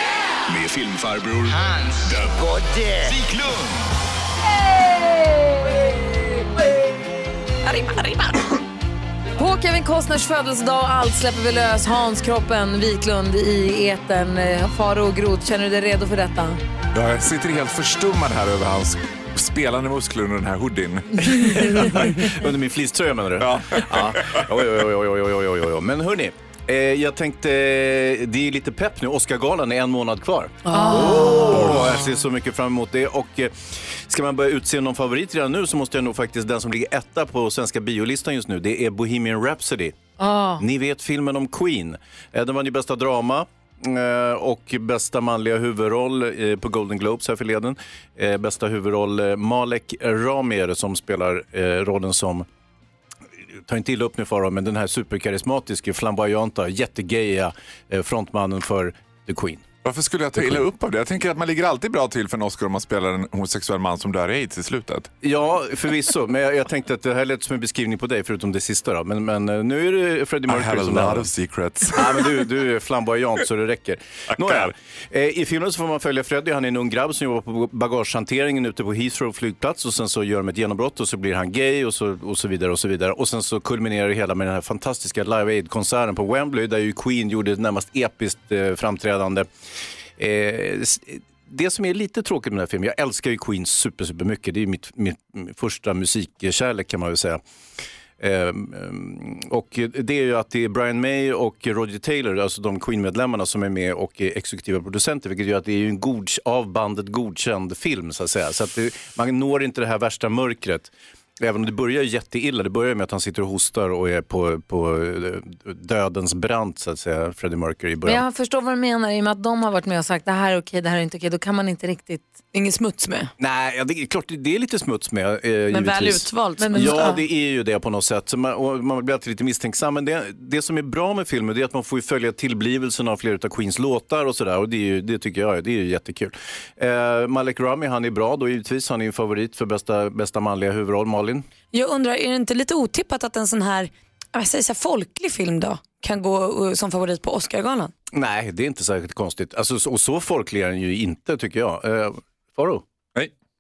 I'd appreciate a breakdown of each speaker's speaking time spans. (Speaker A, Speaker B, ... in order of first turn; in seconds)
Speaker A: 0.5-2.4, 3.1-3.4
Speaker B: 4.5-5.8, 9.4-16.6, 30.7-31.8, 40.2-40.6, 118.1-122.4, 126.6-127.2
Speaker C: 7.6-8.4, 122.5-123.3, 125.7-127.1, 141.7-147.9
Speaker D: 16.9-22.1, 23.4-24.4, 31.5-32.0, 59.8-65.1, 70.5-72.4, 74.4-74.7
Speaker E: 21.4-40.0, 40.6-52.5, 53.5-59.7, 60.4-60.7, 65.2-71.3, 71.9-89.5, 90.2-97.4, 98.2-118.2, 123.4-141.5, 148.1-152.8